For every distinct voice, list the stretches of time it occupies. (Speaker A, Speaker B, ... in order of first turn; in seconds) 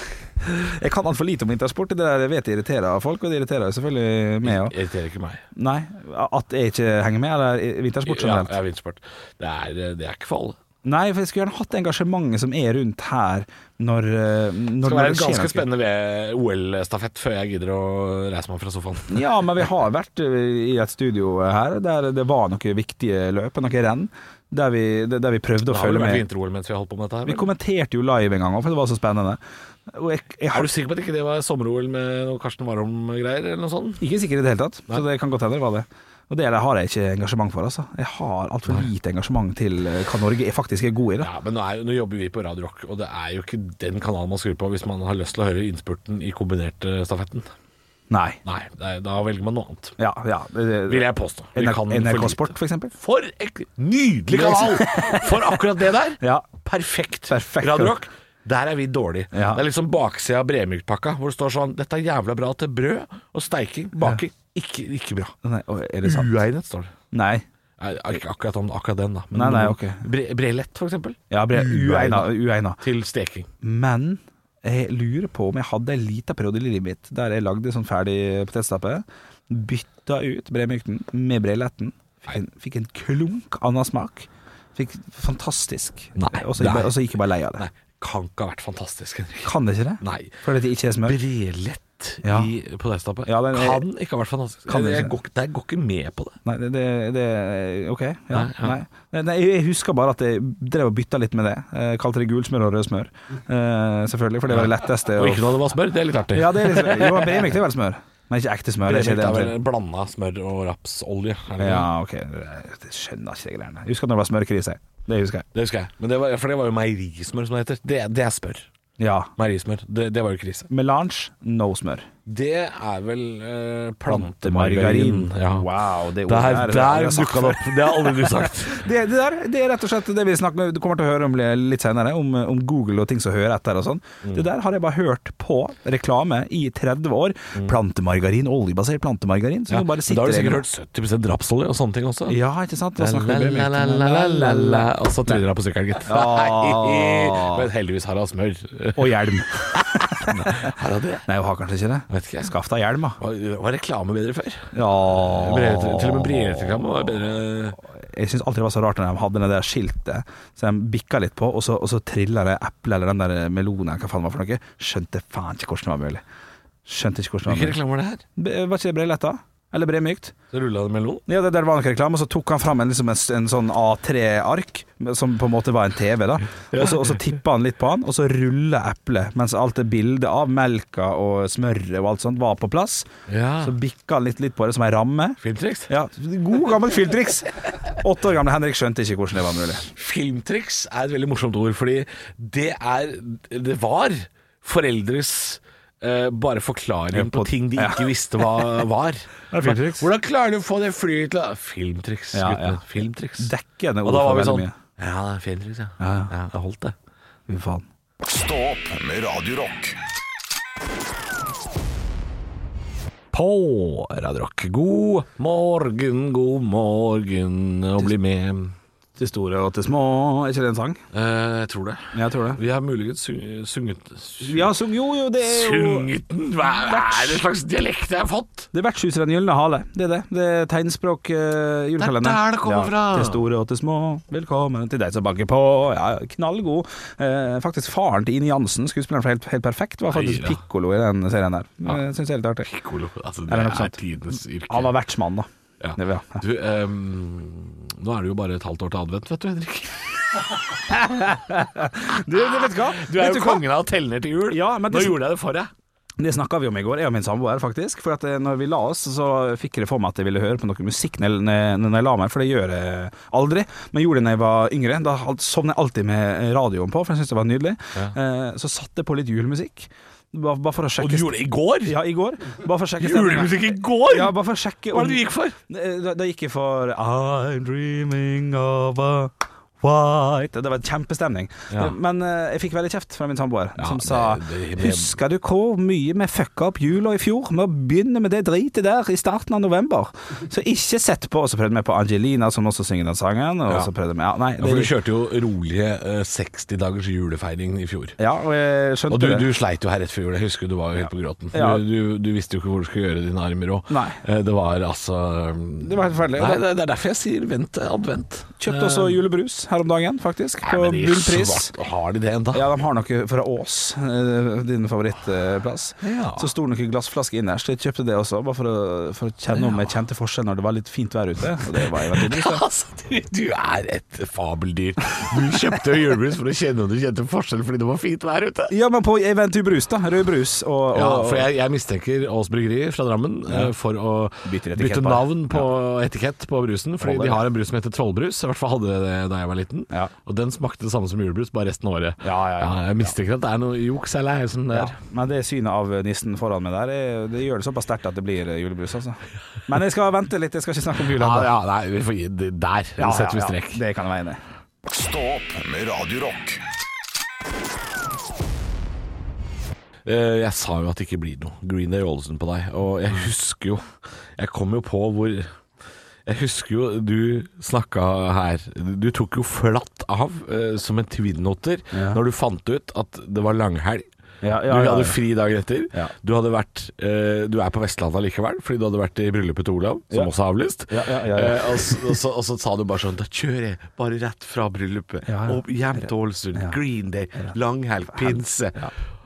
Speaker A: 0.4-4.7, 5.6-8.5, 10.8-15.7, 19.1-26.2, 27.3-30.7, 34.0-41.3, 48.1-48.4, 50.0-52.9, 54.3-55.6, 56.2-56.5, 57.3-58.0, 59.3-59.6, 65.4-66.3, 67.1-67.5, 69.3-70.0, 71.3-72.8, 73.6-87.6, 89.4-91.2, 92.2-92.5, 93.3-93.8, 94.7-95.1, 96.5-105.5, 106.3-109.5, 111.6-115.5, 119.0-119.3, 120.7-122.1, 124.1-140.6, 142.3-145.4, 146.1-147.7, 149.0-150.7, 151.3-153.2, 154.7-156.7, 157.9-166.2, 166.9-167.8, 168.4-170.3, 171.3-183.1, 183.6-189.9, 197.1-198.7, 199.5-200.1, 202.3-202.8, 203.4-204.8, 206.0-206.3, 207.5-207.9, 219.2-221.0, 222.1-222.6, 224.4-226.1, 226.6-227.4, 228.7-242.7, 243.5-246.4, 250.8-253.6, 254.5-255.2, 256.2-294.9, 298.2-299.5, 301.5-301.8, 303.9-304.2, 305.8-306.6, 308.6-311.7, 312.5-322.6, 328.7-331.5, 334.4-335.6, 337.0-337.4, 342.2-343.1, 344.7-351.5, 353.0-354.4, 371.9-372.2, 374.4-375.2, 380.9-382.2, 385.3-386.8, 388.1-388.9
Speaker B: 4.4-5.4, 8.1-10.6, 14.8-19.2, 25.7-27.5, 30.5-34.0, 41.2-47.5, 48.5-50.0, 50.9-65.3, 66.0-66.9, 67.8-73.5, 86.2-87.0, 87.6-90.4, 91.0-96.4, 98.3-98.8, 104.5-107.5, 108.8-111.9, 115.5-118.7, 119.4-120.7, 122.3-125.7, 126.3-128.9, 139.7-142.4, 143.0-149.1, 149.7-151.3, 152.1-152.5, 153.2-157.8, 167.5-168.2, 170.5-171.2, 176.7-177.2, 183.3-183.7, 185.4-185.9, 189.9-203.5, 204.1-206.9, 213.3-218.8, 221.1-224.7, 225.4-228.7, 232.0-233.4, 240.1-240.6, 242.6-244.9, 245.8-250.6, 252.1-255.7, 271.0-272.0, 273.0-274.4, 274.9-275.6, 283.8-285.2, 294.6-298.2, 299.1-309.2, 310.6-312.6, 316.0-316.5, 319.6-319.8, 321.9-328.7, 330.9-345.0, 351.1-353.8, 360.1-365.5, 366.3-374.1, 374.7-388.9
Speaker C: 208.2-210.0, 354.9-356.6